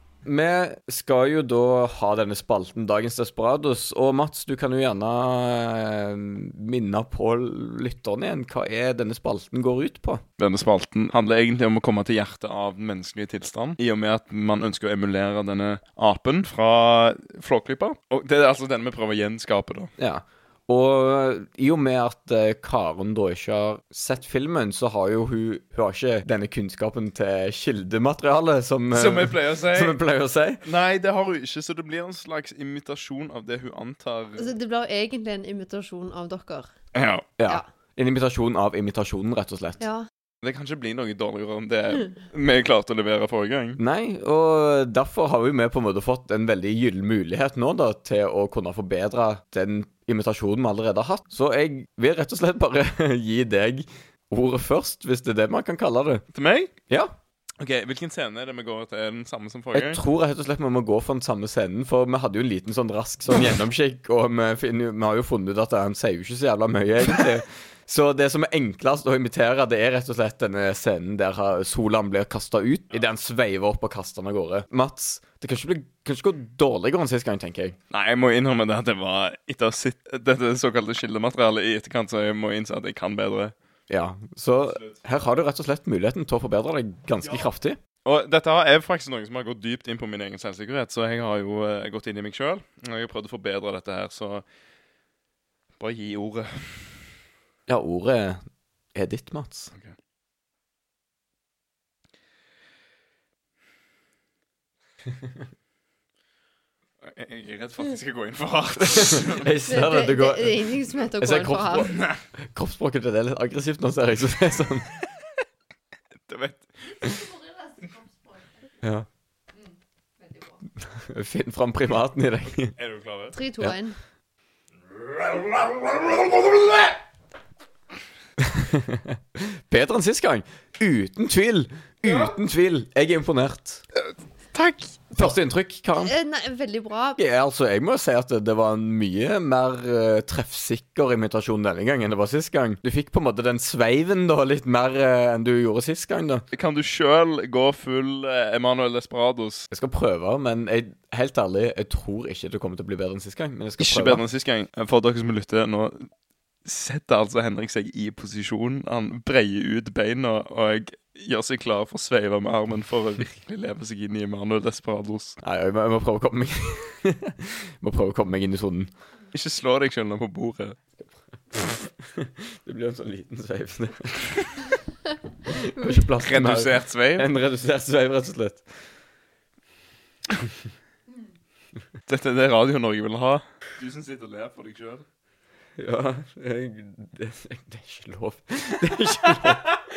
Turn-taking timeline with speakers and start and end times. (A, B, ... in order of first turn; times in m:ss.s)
0:00.2-0:10.2 A
0:10.4-0:19.9 B
0:20.0-0:30.6 A
0:28.9-0:30.0 B
0:30.6-0:34.5 B
0:34.4-0:36.7 C
0:36.9-0:37.3 B
0:37.4-0:39.8 A
0:39.8-0:40.1 C
0:40.4-0:43.8 B
0:43.8-0:56.2 A
0:56.3-0:56.7 B
0:57.6-1:00.0 B
0:59.7-1:17.8 A
1:17.9-1:23.5 B
1:23.9-1:27.8 A
1:24.6-1:25.1 B
1:27.2-1:27.5 B
1:28.0-1:34.4 B
1:35.8-1:36.9 B
1:37.7-1:38.4 A
1:38.9-1:39.7 A
1:47.0-1:49.5 B
1:48.8-1:51.9 A
1:49.6-1:51.9 C
1:51.9-1:52.2 B
1:52.5-1:54.9 A
1:56.3-1:57.2 B
1:58.8-1:59.1 A
2:00.8-2:02.7 A
2:02.8-2:03.4 B
2:03.3-2:04.0 C
2:05.1-2:06.9 B
2:08.4-2:13.8 A
2:14.0-2:15.1 B
2:15.1-2:16.1 A
2:16.0-2:17.2 C
2:17.2-2:26.4 A
2:26.5-2:29.7 B
2:29.7-2:34.2 A
2:33.8-2:36.1 B
2:36.6-2:45.4 B
2:45.4-2:48.9 A
2:49.3-2:50.8 B
2:51.5-2:54.5 A
2:55.5-2:58.6 A
2:55.7-2:56.1 C
2:56.2-2:57.3 B
3:02.1-3:05.0 B
3:05.8-3:09.7 A
3:09.3-3:09.8 B